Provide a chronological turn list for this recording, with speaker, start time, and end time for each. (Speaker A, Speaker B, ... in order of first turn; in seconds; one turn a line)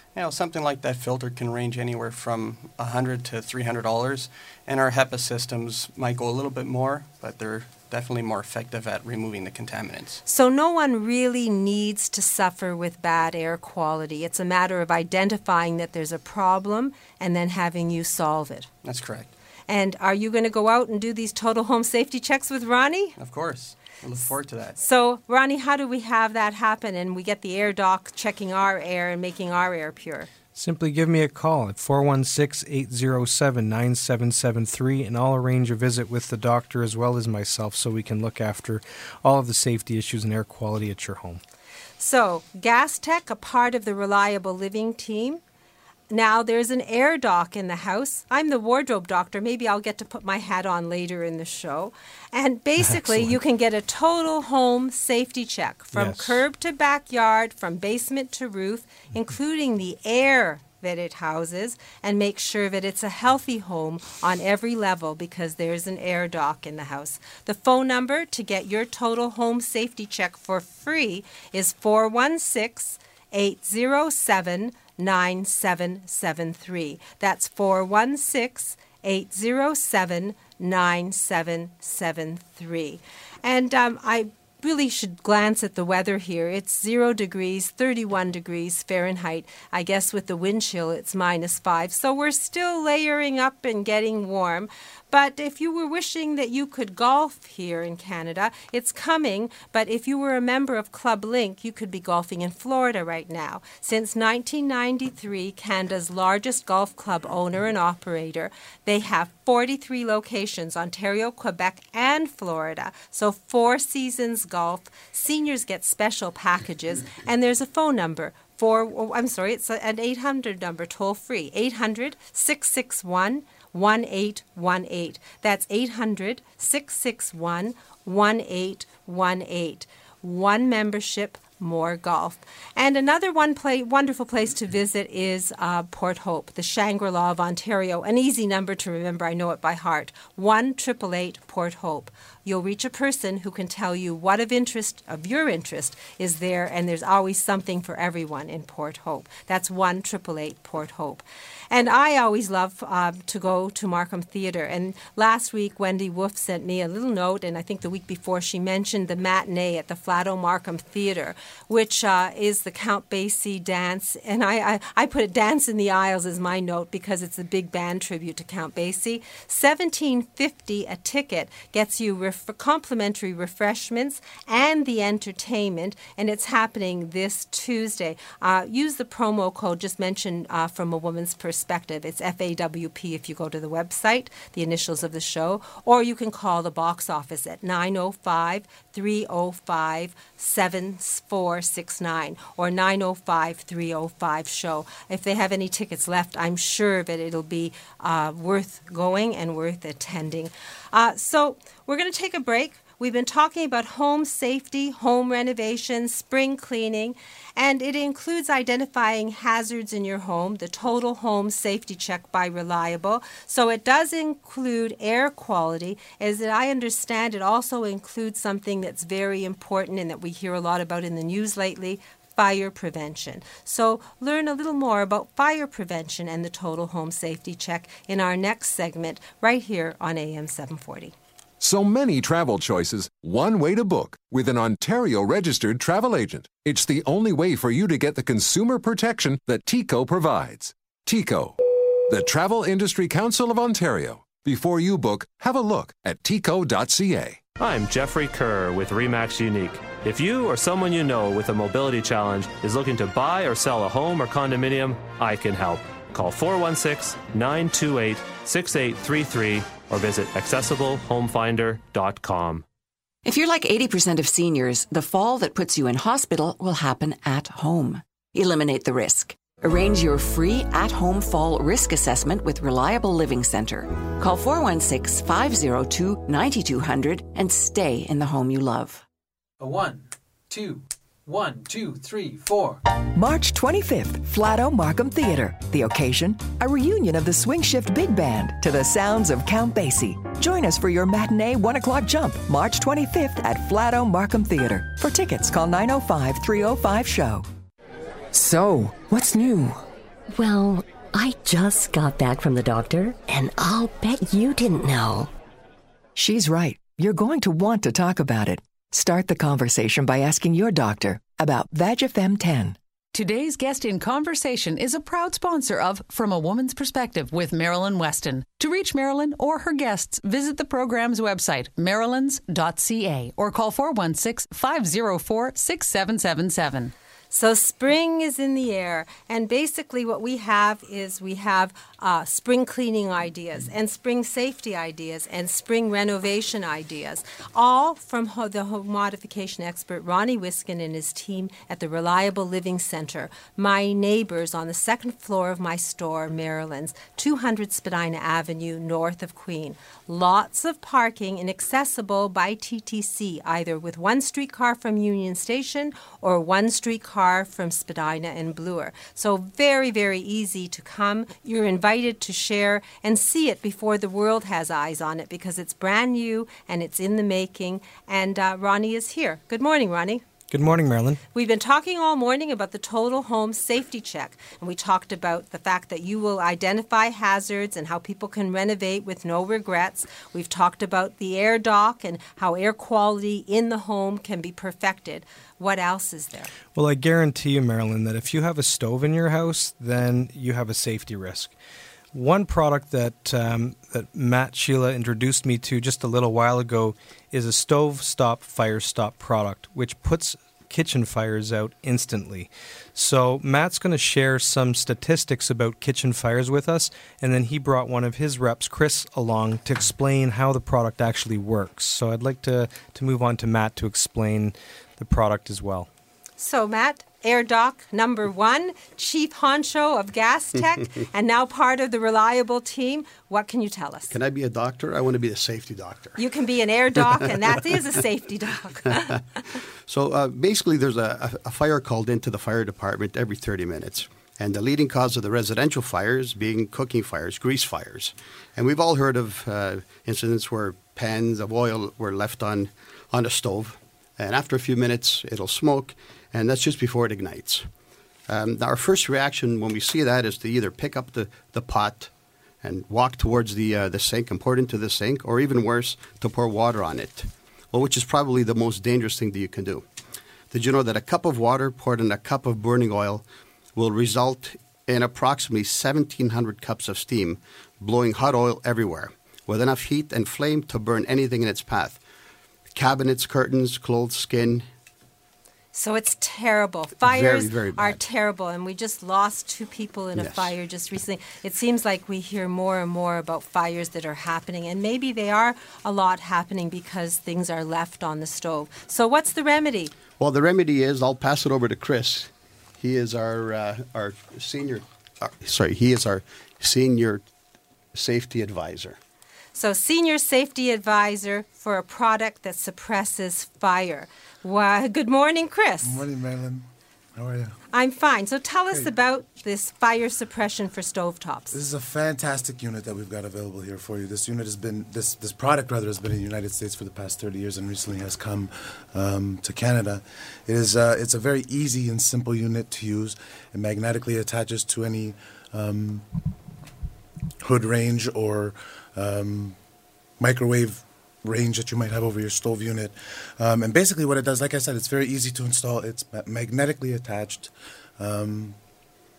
Speaker A: 0.1-10.2
Speaker B: 10.2-18.7
Speaker A: 18.8-19.3
Speaker B: 19.7-23.1
Speaker A: 23.2-24.8
Speaker B: 24.8-30.3
Speaker C: 30.5-41.4
Speaker B: 42.0-45.4
Speaker B: 46.1-231.1
Speaker C: 52.8-53.3
Speaker C: 55.9-56.4
Speaker D: 231.6-241.6
Speaker D: 242.1-247.4
Speaker E: 247.6-262.6
Speaker F: 263.3-279.0
Speaker G: 279.6-282.8
Speaker H: 283.1-297.4
Speaker H: 298.3-299.8
Speaker I: 300.3-305.3
Speaker H: 306.1-312.8
Speaker J: 313.1-326.9
Speaker B: 327.3-370.2
Speaker C: 370.5-371.2
Speaker B: 371.3-386.5
Speaker C: 386.7-391.5
Speaker C: 392.1-415.9
Speaker B: 416.4-424.1
Speaker K: 424.1-426.2
Speaker B: 426.2-429.2
Speaker K: 427.0-427.8
Speaker K: 428.9-429.2
Speaker K: 429.9-447.7
Speaker K: 448.3-459.9
Speaker K: 460.5-472.0
Speaker K: 472.7-474.7
Speaker B: 475.7-489.9
Speaker K: 477.0-478.0
Speaker K: 480.1-480.5
Speaker K: 490.2-497.2
Speaker K: 497.9-499.0
Speaker B: 499.5-506.0
Speaker L: 505.8-506.6
Speaker L: 507.1-507.6
Speaker B: 507.7-511.6
Speaker L: 511.5-526.0
Speaker L: 527.4-529.5
Speaker L: 530.2-538.5